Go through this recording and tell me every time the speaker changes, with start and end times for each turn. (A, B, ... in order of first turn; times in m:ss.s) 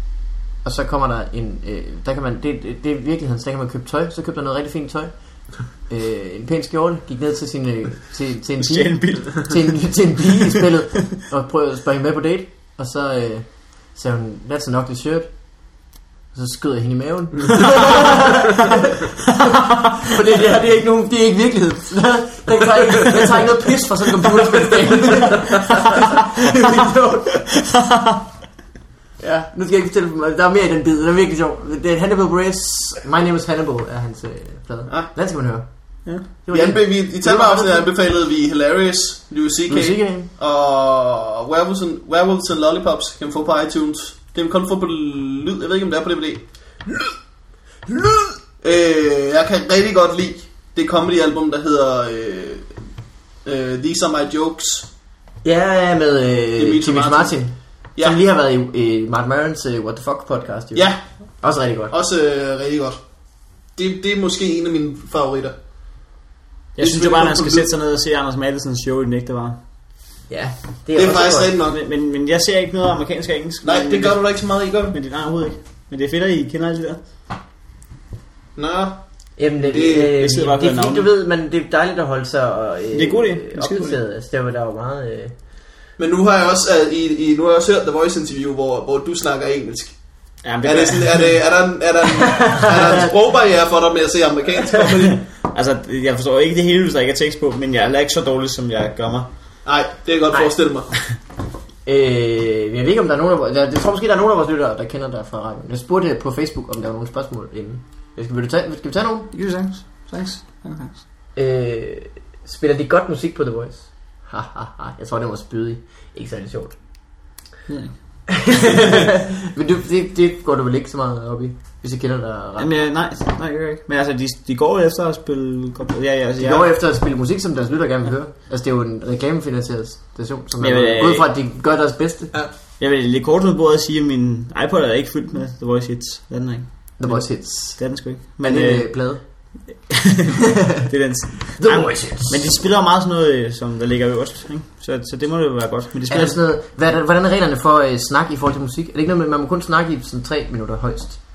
0:00.6-0:27.4 A
0:08.6-0:09.8 B
0:27.4-0:28.2 B
0:29.2-0:37.9 A
0:36.5-0:47.1 C
0:39.7-0:40.3 A
0:47.9-0:52.7 C
0:53.4-0:54.9 C
0:55.4-1:01.9 A
0:56.6-0:57.4 C
1:00.7-1:01.0 C
1:01.9-1:03.0 C
1:03.8-1:05.5 C
1:06.8-1:09.6 B
1:06.8-1:07.7 C
1:10.3-1:11.5 A
1:10.9-1:11.8 C
1:11.7-1:17.0 B
1:13.6-1:15.0 C
1:18.6-1:19.0 C
1:19.4-1:25.3 A
1:19.6-1:20.1 C
1:20.0-1:21.1 B
1:22.9-1:24.0 B
1:26.0-1:30.0 C
1:30.4-1:31.3 B
1:30.6-1:35.2 C
1:32.2-1:33.1 A
1:35.1-1:39.3 B
1:39.6-1:40.9 C
1:41.8-1:49.3 A
1:49.3-1:51.0 B
1:51.3-1:56.8 A
1:57.7-1:58.4 B
1:58.3-2:02.7 A
2:02.6-2:06.7 B
2:06.4-2:12.4 A
2:10.6-2:11.3 B
2:12.8-2:26.4 B
2:17.0-2:19.4 A
2:21.6-2:22.5 A
2:26.1-2:31.2 A